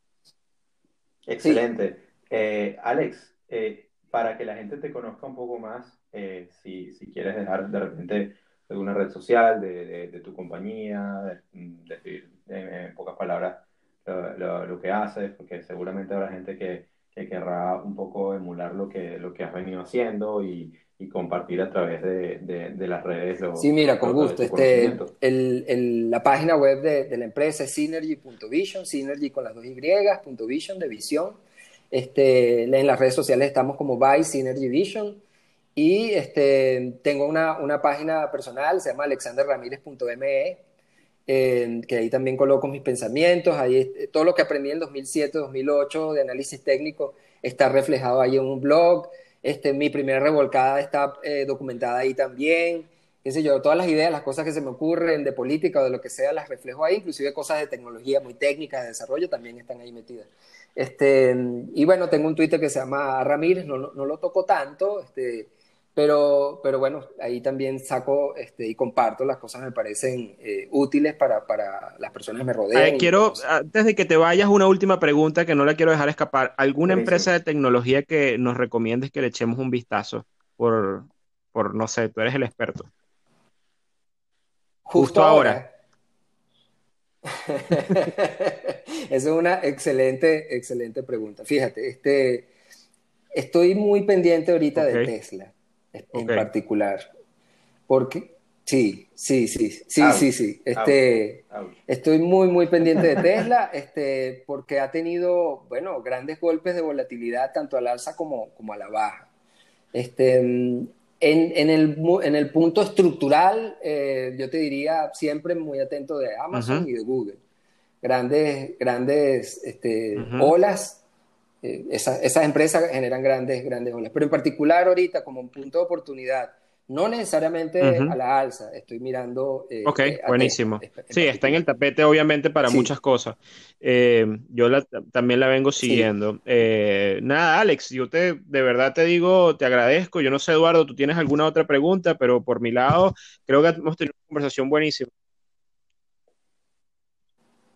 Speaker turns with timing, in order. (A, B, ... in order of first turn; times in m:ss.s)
0:01.3-0:25.1 A
0:23.6-0:31.4 B
0:31.9-0:35.2 B
0:35.8-0:40.6 B
0:41.3-1:13.4 B
1:12.7-1:22.9 C
1:16.8-1:17.3 A
1:24.8-1:25.7 B
1:25.0-1:25.6 C
1:27.3-1:32.5 B
1:33.3-1:37.1 B
1:34.8-1:35.1 C
1:36.1-1:36.4 C
1:37.9-1:49.3 B
1:40.0-1:41.8 A
1:49.9-1:57.4 B
1:56.5-1:56.9 C
1:58.0-2:01.0 B
2:00.2-2:00.5 C
2:01.6-2:11.6 B
2:07.8-2:08.2 C
2:09.8-2:25.1 C
2:12.6-2:12.9 B
2:15.8-2:16.1 B